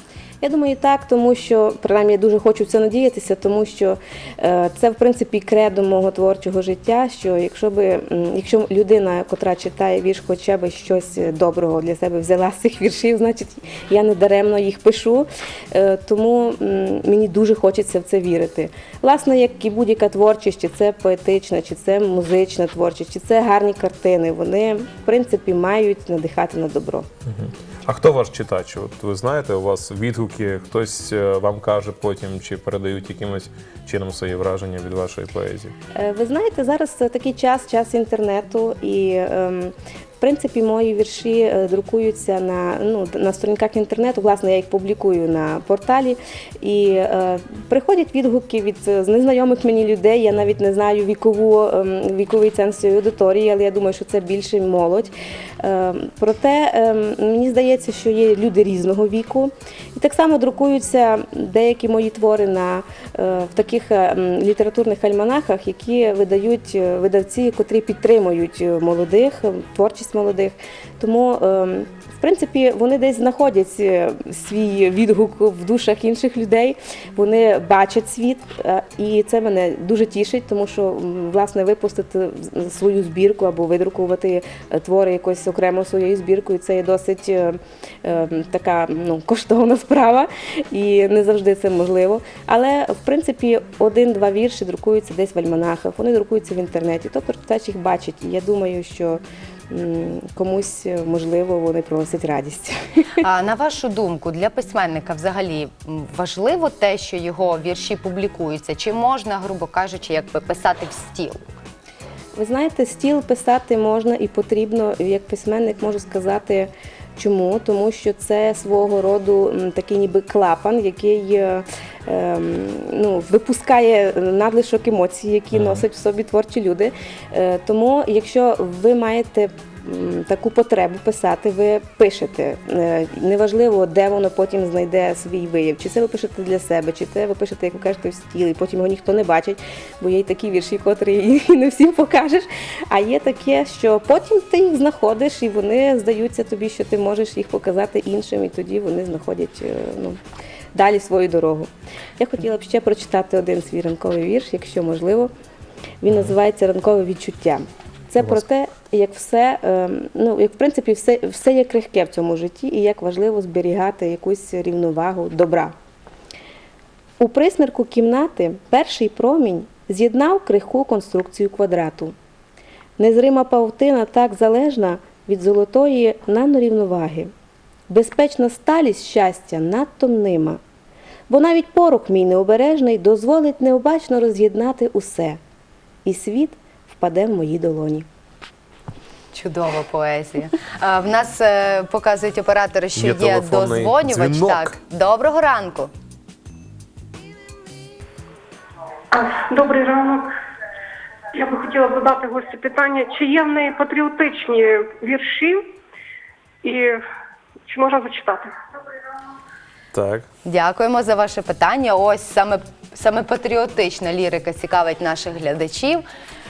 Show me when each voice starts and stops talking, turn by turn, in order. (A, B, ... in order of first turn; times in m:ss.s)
0:00.4-0:27.1 A
0:27.3-0:35.7 B
0:36.0-1:43.2 A
1:43.2-1:51.4 C
1:52.4-2:30.2 A
2:05.5-2:05.8 B
2:30.7-2:35.3 A
2:36.0-2:45.7 A
2:47.2-2:52.1 A
2:53.0-2:57.3 A
2:57.9-3:00.6 A
3:01.3-3:05.4 A
3:06.0-3:08.1 A
3:09.3-3:15.9 C
3:13.0-3:14.7 B
3:19.1-3:20.3 D
3:21.4-3:25.6 D
3:26.6-3:27.0 D
3:27.7-3:28.5 D
3:29.9-3:30.3 B
3:30.4-3:36.0 C